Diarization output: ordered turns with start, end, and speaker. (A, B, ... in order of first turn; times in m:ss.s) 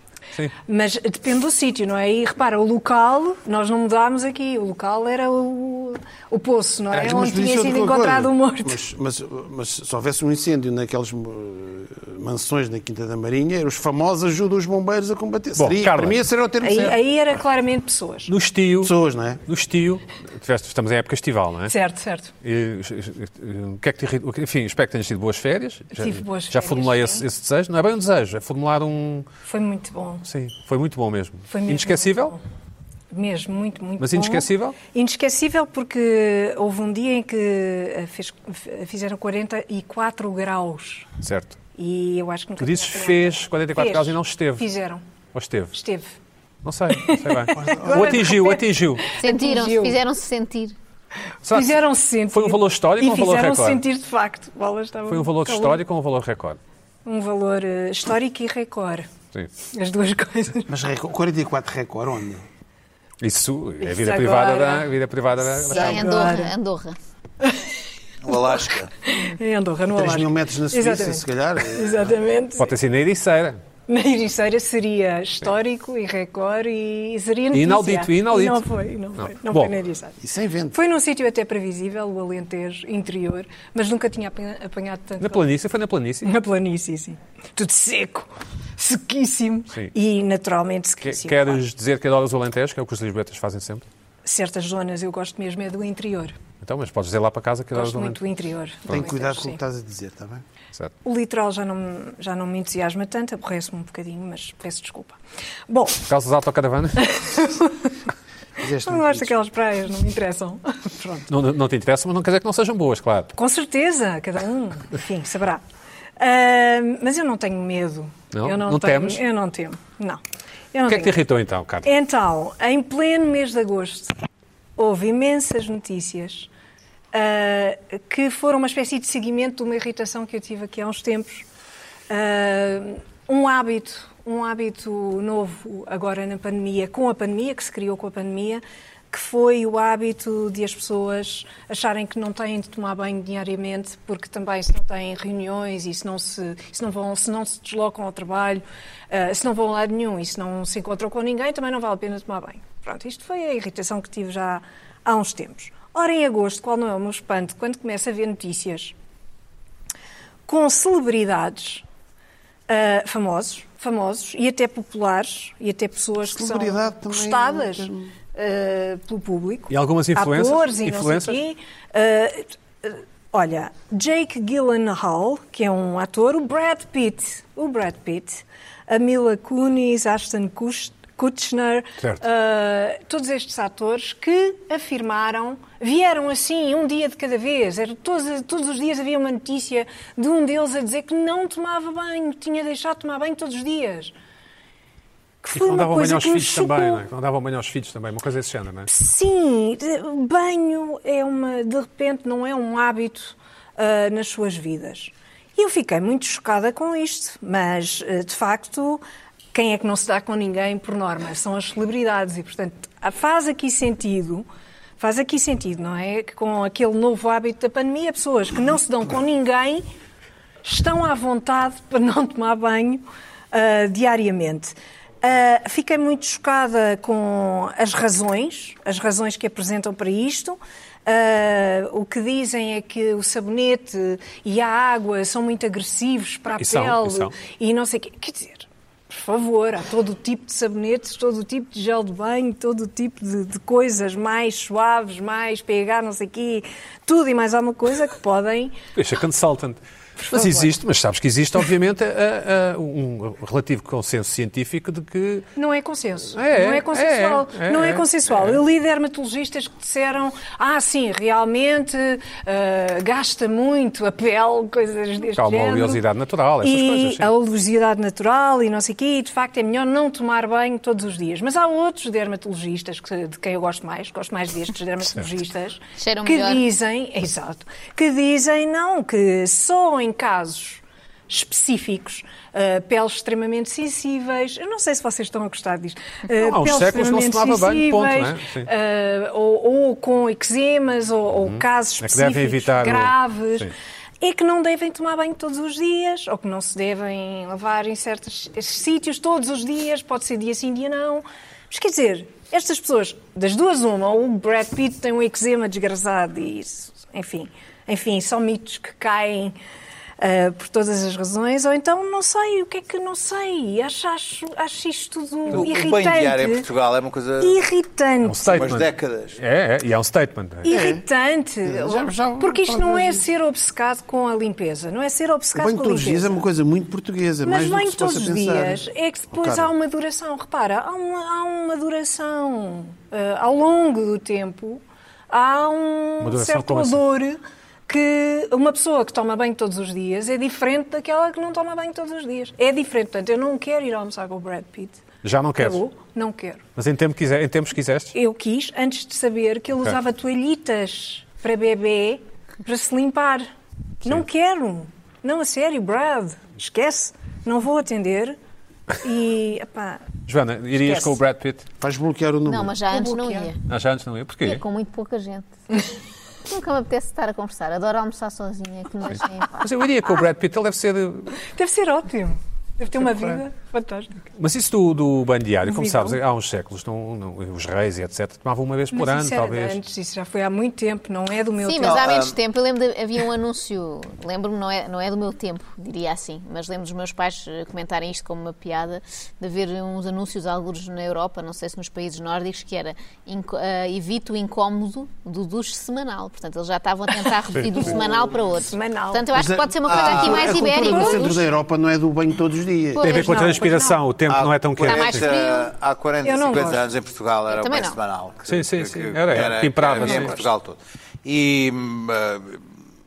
0:00.7-0:08.8 A
0:06.9-0:17.0 B
0:15.6-0:16.2 C
0:16.6-0:18.3 A
0:18.3-0:21.8 C
0:18.8-0:19.4 B
0:21.7-0:22.3 A
0:22.4-0:29.3 C
0:26.0-0:27.2 A
0:29.5-0:30.2 A
0:30.2-0:32.4 C
0:31.5-0:32.4 A
0:33.1-0:41.1 A
0:34.0-0:34.8 C
0:41.2-0:41.6 C
0:41.8-0:45.0 A
0:42.6-0:44.7 C
0:45.3-0:45.8 C
0:45.7-0:46.2 A
0:46.6-0:49.0 C
0:47.0-0:50.0 A
0:49.2-0:50.8 D
0:51.5-0:51.8 C
0:51.5-0:55.8 A
0:52.3-0:53.8 C
0:55.1-0:56.6 C
0:57.0-0:59.1 A
0:59.7-1:00.7 A
1:00.7-1:02.4 B
1:03.2-1:06.1 C
1:03.8-1:04.9 A
1:05.6-1:06.5 A
1:05.7-1:07.0 D
1:07.4-1:07.8 A
1:08.2-1:08.9 E
1:08.3-1:12.7 A
1:09.9-1:12.1 B
1:12.6-1:13.6 C
1:13.9-1:20.2 A
1:17.5-1:18.6 C
1:19.2-1:19.7 C
1:20.2-1:20.8 B
1:20.7-1:25.4 A
1:25.2-1:26.3 C
1:26.2-1:31.6 A
1:31.0-1:33.9 C
1:34.2-1:36.4 A
1:36.6-1:38.2 C
1:37.7-1:39.6 A
1:38.9-1:40.4 B
1:41.0-1:46.0 A
1:46.1-1:47.2 C
1:47.0-1:47.9 A
1:48.6-1:49.4 B
1:48.6-1:51.3 A
1:51.3-1:53.3 C
1:53.4-1:55.6 A
1:56.2-2:00.2 A
1:58.3-1:59.2 C
2:00.7-2:01.2 A
2:00.9-2:01.9 C
2:01.8-2:04.1 A
2:04.8-2:06.5 A
2:07.1-2:11.5 A
2:12.1-2:39.0 A
2:40.5-2:41.8 A
2:42.7-3:14.1 A
2:46.2-2:48.1 B
2:49.7-2:51.4 C
3:15.4-3:17.0 A
3:15.5-3:18.9 C
3:18.9-3:34.5 A
3:35.0-3:39.8 A
3:40.6-4:08.8 A
3:56.6-3:57.3 C
4:09.0-4:15.5 C
4:10.2-4:10.7 A
4:15.6-4:26.0 A
4:16.3-4:18.6 C
4:25.4-4:27.3 C
4:26.6-5:09.6 A
4:36.0-4:36.6 D
4:46.4-4:48.7 C
4:51.4-4:53.7 C
5:10.2-5:16.7 A
5:15.5-5:17.6 E
5:17.4-5:18.7 A
5:18.2-5:20.7 C
5:18.5-5:19.4 E
5:20.6-5:26.4 A
5:20.7-5:21.0 B
5:21.6-5:23.3 B
5:25.6-5:28.8 B
5:27.4-5:45.0 A
5:29.4-5:29.7 B
5:36.2-5:37.0 C
5:45.2-5:45.8 C
5:45.6-5:46.6 A
5:46.8-5:48.1 C
5:48.1-5:53.5 A
5:54.0-5:58.4 A
5:59.0-6:00.0 A
6:00.3-6:01.7 C
6:00.8-6:01.1 A
6:01.8-6:02.8 B
6:02.5-6:03.6 D
6:02.9-6:03.5 A
6:03.7-6:04.6 C
6:04.4-6:05.8 D
6:06.5-6:09.6 D
6:09.6-6:11.4 C
6:11.4-6:14.2 A
6:13.1-6:13.4 C
6:14.4-6:19.8 C
6:15.6-6:16.2 A
6:18.9-6:22.1 A
6:21.6-6:41.4 D
6:21.8-6:22.4 E
6:37.6-6:37.9 C
6:38.6-6:39.3 A
6:39.3-6:43.0 B
6:39.9-6:40.5 E
6:40.1-6:41.3 A
6:43.0-6:43.5 D
6:43.0-6:44.0 A
6:43.0-6:45.3 C
6:44.3-6:52.6 E
6:44.9-6:45.7 D
6:46.2-6:46.9 A
6:47.5-6:48.0 D
6:48.5-6:50.5 C